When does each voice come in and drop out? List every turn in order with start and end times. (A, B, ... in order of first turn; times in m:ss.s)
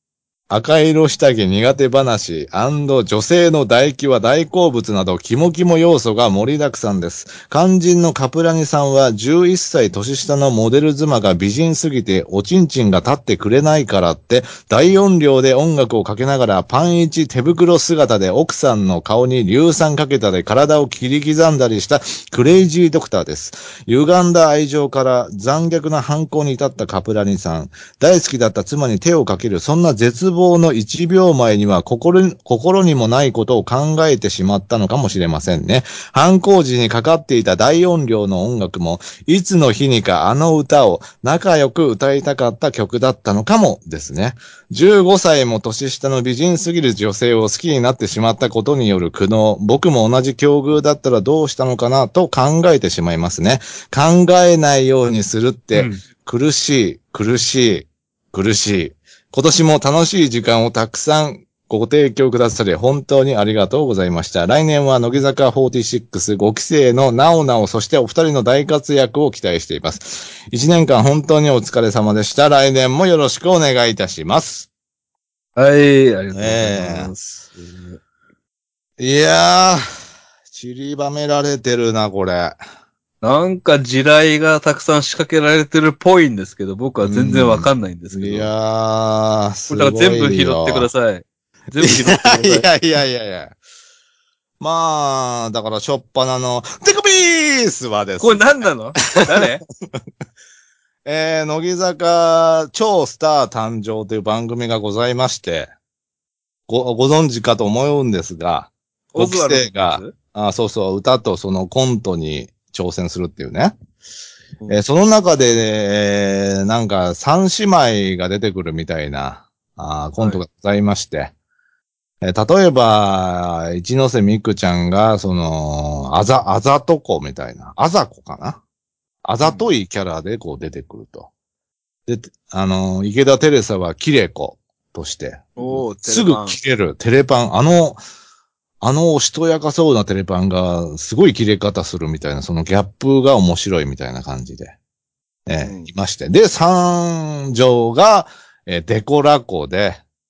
0:00.5-1:14.7 A
0:55.7-0:56.0 B
1:15.6-1:18.0 B
1:16.3-1:17.1 A
1:19.0-1:19.8 A
1:20.5-1:22.6 A
1:23.2-1:28.5 B
1:27.0-1:30.9 A
1:29.7-1:32.7 B
1:31.8-1:33.5 A
1:34.6-1:39.4 A
1:38.2-1:39.6 B
1:41.0-1:45.7 A
1:46.7-1:53.7 A
1:49.1-1:50.1 B
1:54.7-2:01.3 A
2:02.2-2:08.6 A
2:09.2-2:11.3 A
2:09.4-2:09.7 B
2:12.1-2:18.0 A
2:15.6-2:16.6 B
2:18.8-2:24.7 A
2:25.5-2:30.0 A
2:25.6-2:25.9 B